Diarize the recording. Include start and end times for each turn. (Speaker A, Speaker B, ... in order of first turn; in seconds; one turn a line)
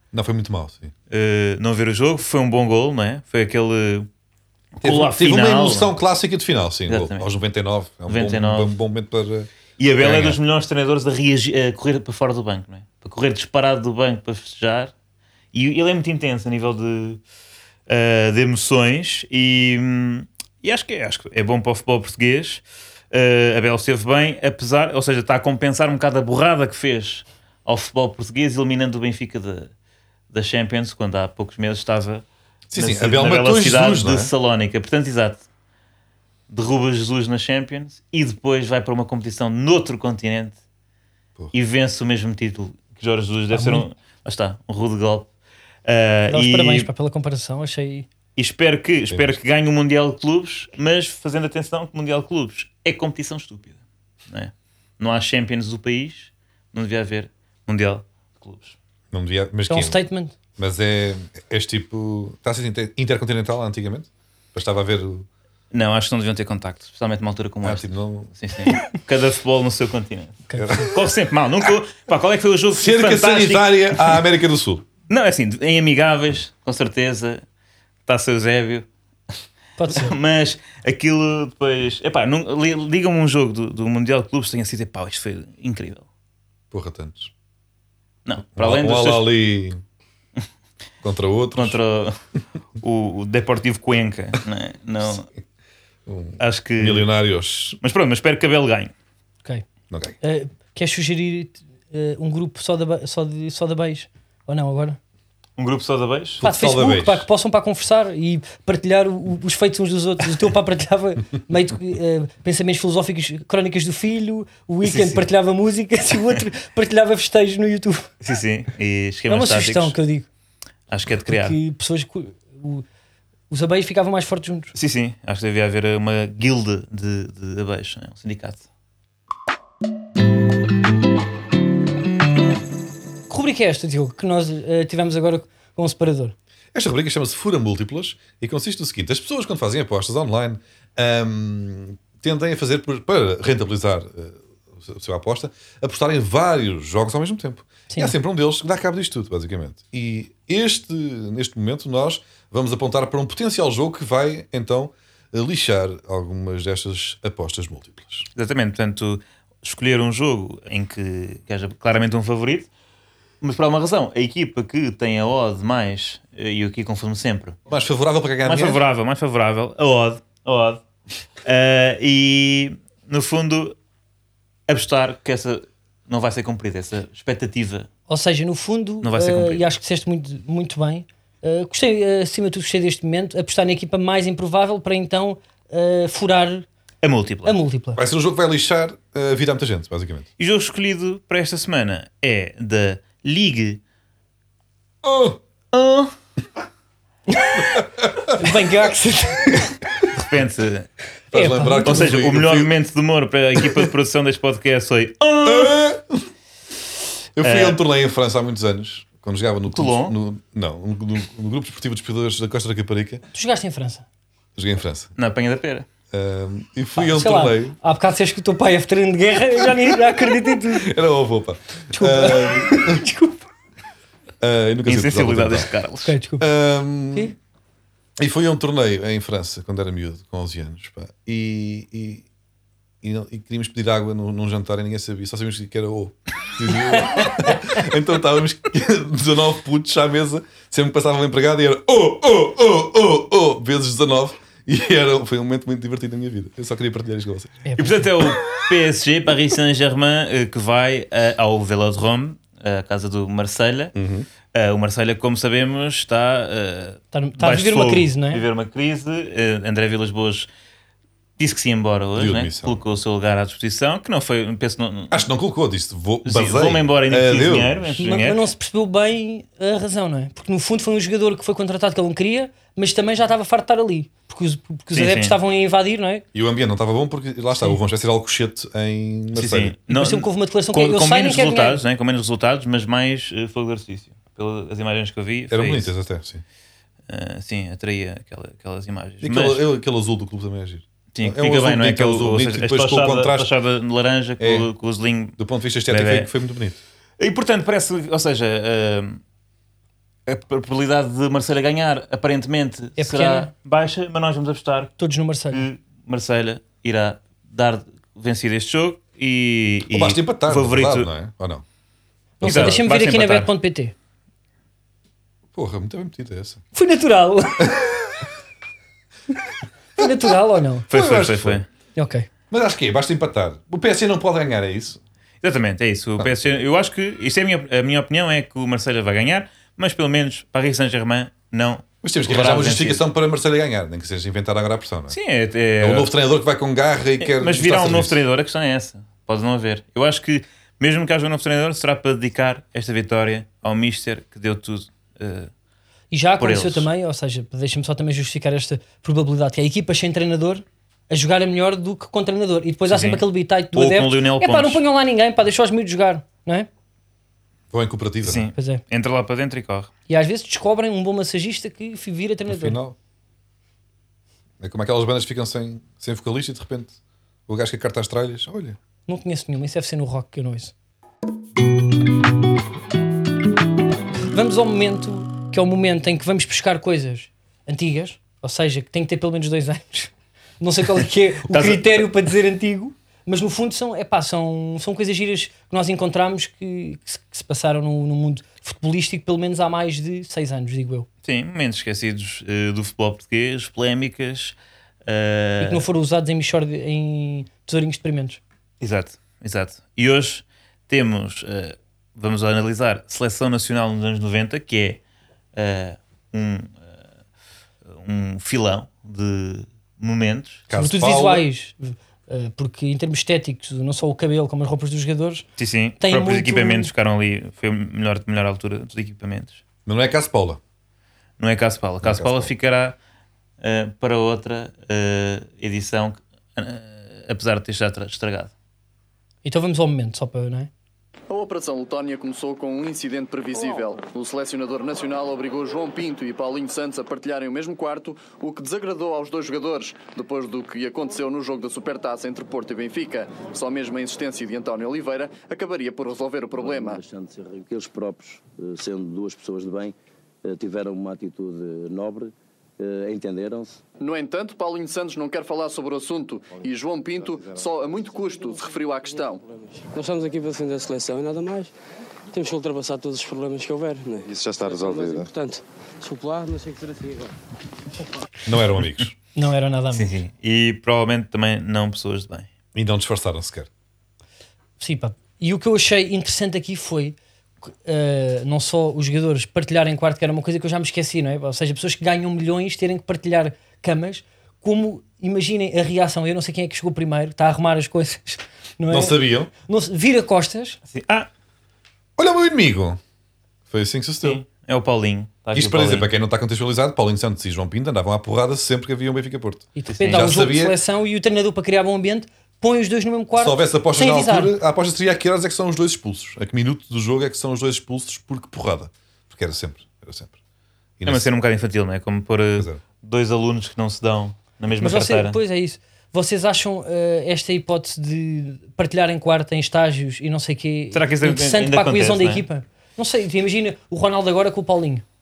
Speaker A: 0.1-0.9
Speaker B: 1.1-4.1
Speaker B: 4.8-5.9
Speaker A: 4.8-10.4
Speaker B: 6.9-7.3
Speaker B: 8.1-8.8
Speaker B: 9.8-14.9
Speaker B: 15.5-17.2
Speaker B: 17.9-29.7
Speaker B: 30.3-35.4
Speaker A: 32.7-34.3
Speaker B: 36.5-40.5
Speaker B: 41.5-45.3
Speaker C: 43.5-43.9
Speaker B: 45.9-46.9
Speaker C: 46.3-48.1
Speaker B: 48.4-58.8
Speaker A: 49.1-49.4
Speaker A: 59.1-60.0
Speaker C: 59.7-60.3
Speaker A: 60.6-65.3
Speaker B: 65.7-74.2
Speaker A: 67.6-68.3
Speaker C: 70.5-70.9
Speaker A: 70.6-70.9
Speaker A: 72.7-74.8
Speaker B: 75.1-77.4
Speaker B: 78.1-78.8
Speaker C: 79.8-80.1
Speaker B: 79.9-86.0
Speaker A: 86.7-87.3
Speaker B: 88.2-89.3
Speaker A: 88.5-89.8
Speaker A: 91.0-91.8
Speaker B: 91.5-92.2
Speaker B: 92.8-95.3
Speaker A: 96.0-97.8
Speaker B: 96.4-97.1
Speaker B: 97.8-98.9
Speaker A: 99.9-100.2
Speaker C: 100.2-105.0
Speaker B: 105.6-106.4
Speaker A: 106.4-107.2
Speaker C: 106.4-118.1
Speaker B: 114.8-115.2
Speaker B: 118.2-120.0
Speaker C: 119.3-120.3
Speaker B: 120.9-121.6
Speaker C: 121.3-122.8
Speaker C: 123.5-124.7
Speaker B: 124.7-128.6
Speaker C: 133.3-136.3
Speaker A: 136.7-158.3
Speaker B: 158.3-162.7
Speaker B: 163.4-167.6
Speaker A: 167.7-168.8
Speaker B: 168.4-170.8
Speaker B: 171.4-173.7
Speaker B: 174.7-177.9
Speaker C: 178.1-186.7
Speaker B: 179.0-179.6
Speaker B: 187.0-187.6
Speaker C: 187.4-188.0
Speaker A: 187.9-190.2
Speaker B: 190.4-193.8
Speaker A: 195.0-195.4
Speaker B: 195.7-196.1
Speaker C: 197.3-197.8
Speaker A: 197.8-198.3
Speaker C: 198.3-199.7
Speaker B: 200.1-200.9
Speaker A: 201.3-202.7
Speaker C: 201.3-202.1
Speaker B: 201.8-205.8
Speaker A: 203.6-203.8
Speaker A: 205.4-206.3
Speaker A: 207.3-213.2
Speaker B: 207.4-207.8
Speaker B: 209.7-210.1
Speaker C: 213.3-214.0
Speaker A: 214.6-215.1
Speaker B: 215.2-215.8
Speaker A: 216.1-217.8
Speaker C: 216.9-220.9
Speaker A: 220.7-223.0
Speaker C: 221.9-223.4
Speaker A: 224.4-225.7
Speaker B: 224.8-226.2
Speaker C: 226.0-226.4
Speaker A: 226.4-227.3
Speaker A: 228.2-232.2
Speaker A: 233.0-247.6
Speaker C: 237.1-237.5
Speaker C: 247.6-248.0
Speaker B: 247.8-253.9
Speaker A: 253.9-254.3
Speaker B: 254.5-260.5
Speaker C: 257.1-258.4
Speaker B: 261.4-265.2
Speaker A: 262.1-262.8
Speaker A: 265.1-268.0
Speaker B: 266.2-268.4
Speaker C: 268.0-276.2
Speaker B: 274.9-275.4
Speaker A: 276.3-279.7
Speaker B: 279.3-285.9
Speaker C: 279.9-281.8
Speaker A: 285.5-286.4
Speaker B: 287.1-289.6
Speaker A: 289.2-293.5
Speaker B: 291.1-295.4
Speaker A: 294.4-294.7
Speaker A: 295.4-296.8
Speaker B: 295.9-296.3
Speaker B: 297.2-299.2
Speaker B: 300.3-304.9
Speaker C: 303.0-303.5
Speaker C: 305.0-305.6
Speaker B: 305.5-311.1
Speaker A: 309.9-311.6
Speaker C: 312.4-313.9
Speaker A: 312.4-312.8
Speaker B: 312.4-313.5
Speaker A: 315.5-316.6
Speaker C: 316.7-317.9
Speaker A: 317.6-317.9
Speaker C: 320.0-320.9
Speaker A: 320.9-321.6
Speaker B: 320.9-321.6
Speaker C: 321.9-322.3
Speaker A: 322.5-325.0
Speaker B: 325.4-333.0
Speaker A: 332.0-335.2
Speaker B: 335.1-336.1
Speaker A: 335.8-338.2
Speaker B: 337.2-345.5
Speaker C: 346.1-356.7
Speaker B: 346.4-346.9
Speaker B: 352.9-353.2
Speaker B: 353.7-354.8
Speaker A: 357.7-358.5
Speaker B: 358.2-359.9
Speaker C: 358.5-358.8
Speaker C: 360.1-362.8
Speaker A: 362.5-362.9
Speaker A: 364.6-367.0
Speaker A: 367.5-368.8
Speaker C: 369.1-370.7
Speaker C: 374.3-391.1
Speaker B: 381.4-382.0
Speaker B: 391.2-395.8
Speaker C: 395.6-398.4
Speaker B: 398.8-405.0
Speaker B: 405.6-406.8
Speaker B: 407.9-410.6
Speaker A: 410.7-411.4
Speaker C: 410.7-415.4
Speaker B: 415.6-419.6
Speaker C: 416.0-416.9
Speaker A: 419.9-420.6
Speaker B: 421.4-422.9
Speaker A: 422.0-422.5
Speaker B: 423.6-428.5
Speaker C: 429.4-430.7
Speaker D: 431.3-447.0
Speaker E: 446.6-449.9
Speaker E: 450.4-453.8
Speaker D: 454.0-459.4
Speaker F: 459.8-461.7
Speaker F: 462.3-467.3
Speaker A: 468.4-469.1
Speaker C: 469.4-470.1
Speaker B: 469.9-472.5
Speaker A: 472.7-473.7
Speaker C: 474.8-490.8
Speaker A: 488.9-489.5
Speaker B: 490.9-491.3
Speaker A: 492.2-493.0
Speaker A: 493.7-494.4
Speaker B: 494.2-496.1
Speaker A: 495.5-500.8
Speaker C: 499.7-504.5
Speaker B: 499.9-500.2
Speaker A: 503.4-510.4
Speaker A: 511.0-511.3
Speaker B: 511.1-515.4
Speaker C: 514.8-525.0
Speaker B: 520.9-522.4